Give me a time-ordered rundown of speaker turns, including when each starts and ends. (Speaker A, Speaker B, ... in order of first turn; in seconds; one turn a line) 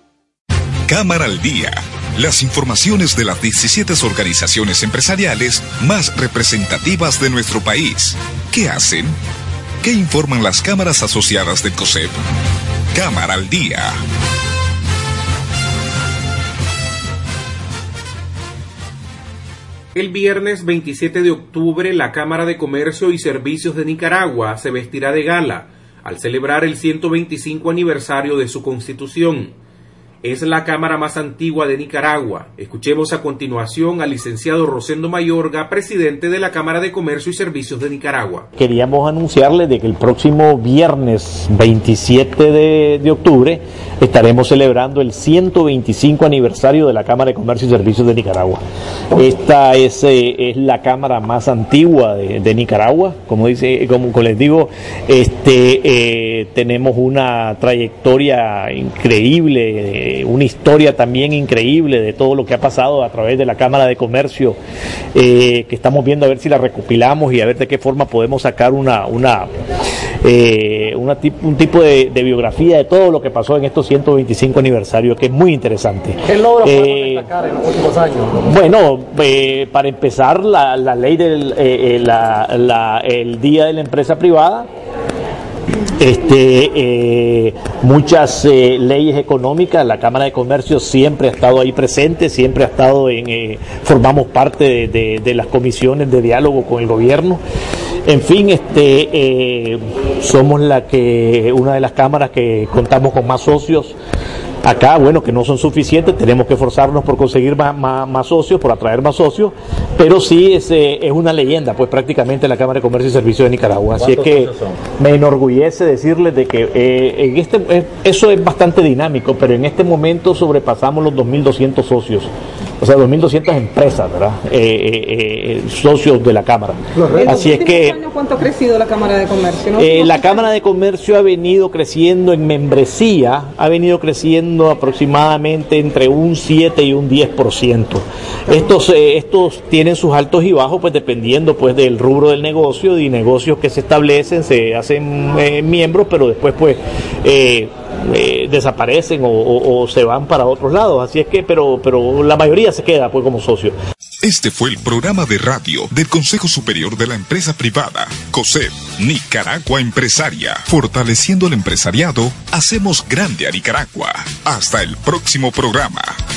Speaker A: 0.9-9.2
Speaker A: 9.8-12.2
Speaker A: 12.9-14.0
Speaker B: 19.9-29.6
Speaker B: 30.2-38.5
Speaker C: 38.6-48.6
Speaker C: 49.1-64.6
Speaker C: 65.2-69.5
Speaker C: 70.2-77.3
Speaker D: 76.2-78.4
Speaker C: 78.4-84.7
Speaker C: 86.0-97.4
Speaker C: 98.1-104.0
Speaker C: 104.6-128.0
Speaker E: 127.1-130.4
Speaker C: 129.8-153.8
Speaker A: 154.2-166.2